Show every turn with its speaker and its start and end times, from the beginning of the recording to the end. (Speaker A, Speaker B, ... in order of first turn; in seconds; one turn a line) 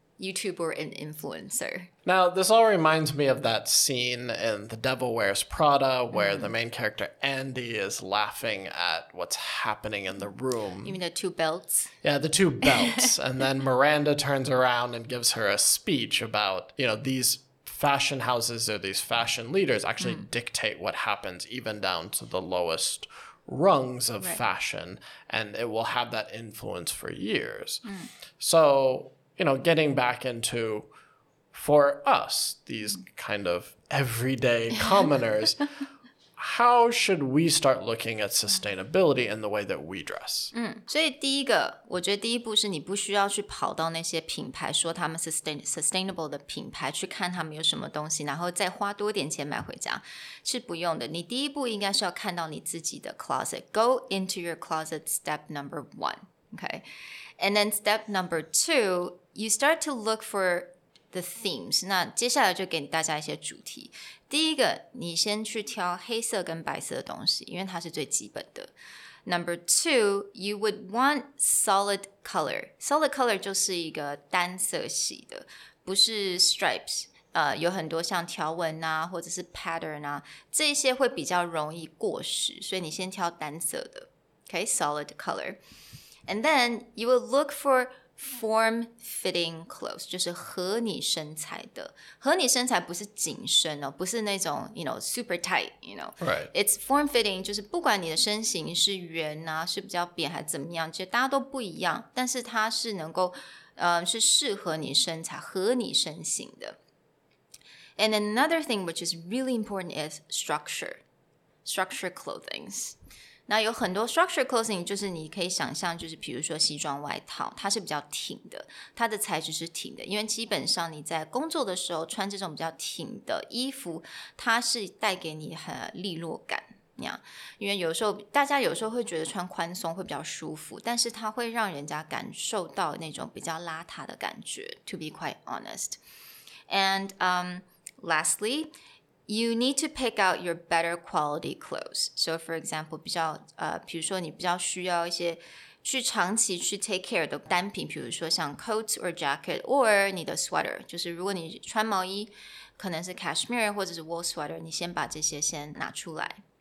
Speaker A: 0.2-1.9
Speaker B: 2.0-11.0
Speaker A: 6.1-6.5
Speaker A: 10.8-11.9
Speaker B: 12.0-27.9
Speaker A: 12.6-13.1
Speaker A: 20.0-20.3
Speaker B: 28.4-30.9
Speaker B: 31.5-35.6
Speaker B: 36.4-40.5
Speaker A: 40.5-56.8
Speaker A: 57.4-68.7
Speaker A: 69.2-85.6
Speaker A: 86.3-106.8
Speaker B: 96.2-96.5
Speaker A: 108.0-111.0
Speaker A: 111.6-113.0
Speaker A: 113.5-136.0
Speaker A: 136.7-138.7
Speaker A: 139.3-156.4